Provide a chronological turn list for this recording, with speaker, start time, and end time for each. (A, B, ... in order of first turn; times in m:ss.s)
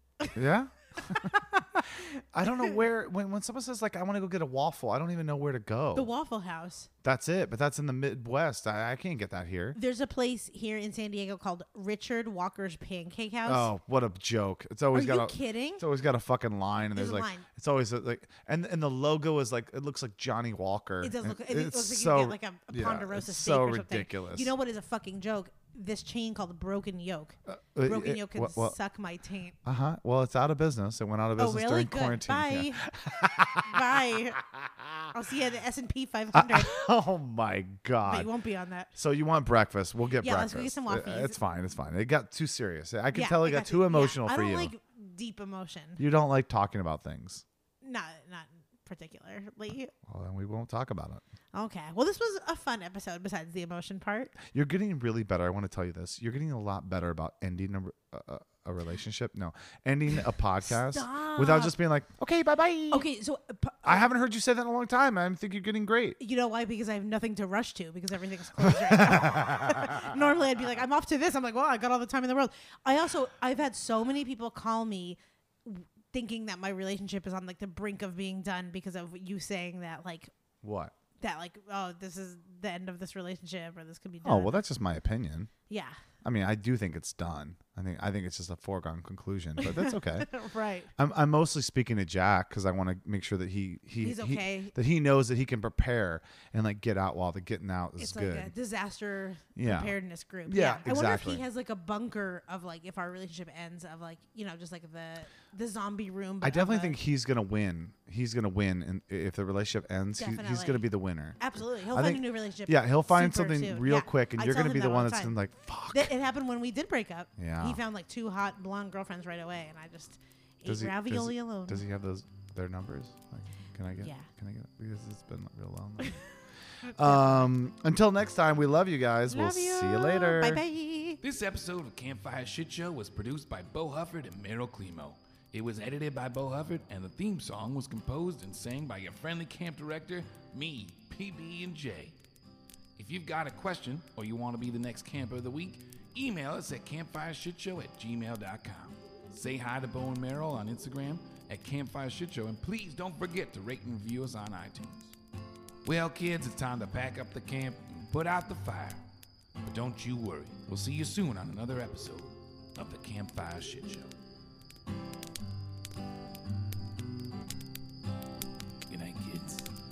0:00.3-0:06.1 A
0:01.0-0:02.8 B
0:06.0-0:06.9 B
0:07.0-0:09.8 A
0:09.7-0:13.7 B
0:13.5-0:24.5 A
0:14.9-0:15.8 B
0:16.9-0:17.5 B
0:21.0-0:29.6 B
0:27.5-0:28.8 A
0:29.6-0:35.1 A
0:31.4-0:34.4 B
0:35.1-0:36.9 B
0:36.3-0:38.3 A
0:38.1-0:38.9 B
0:38.9-0:44.7 A
0:40.2-0:41.4 B
0:43.1-0:46.0 B
0:46.0-0:47.4 A
0:47.8-0:49.9 B
0:50.1-0:51.2 A
0:51.5-0:54.4 B
0:54.4-1:03.1 A
1:00.6-1:01.8 B
1:02.9-1:04.1 B
1:03.8-1:06.2 A
1:06.2-1:20.3 B
1:08.6-1:10.1 A
1:20.6-1:20.9 A
1:21.2-1:24.6 B
1:24.2-1:25.5 A
1:25.7-1:26.0 B
1:26.2-1:30.3 A
1:29.6-1:30.9 B
1:31.0-1:38.5 A
1:34.0-1:34.8 B
1:38.0-1:47.0 B
1:39.6-1:41.4 A
1:46.4-1:56.1 A
1:50.2-1:55.4 B
1:55.9-2:01.8 B
1:57.4-1:57.8 A
2:00.6-2:06.2 A
2:04.0-2:04.3 B
2:06.8-2:10.6 A
2:09.3-2:11.2 B
2:11.2-2:22.2 C
2:23.0-2:35.2 C
2:35.8-2:39.0 C
2:39.6-2:44.2 C
2:48.9-2:49.7 C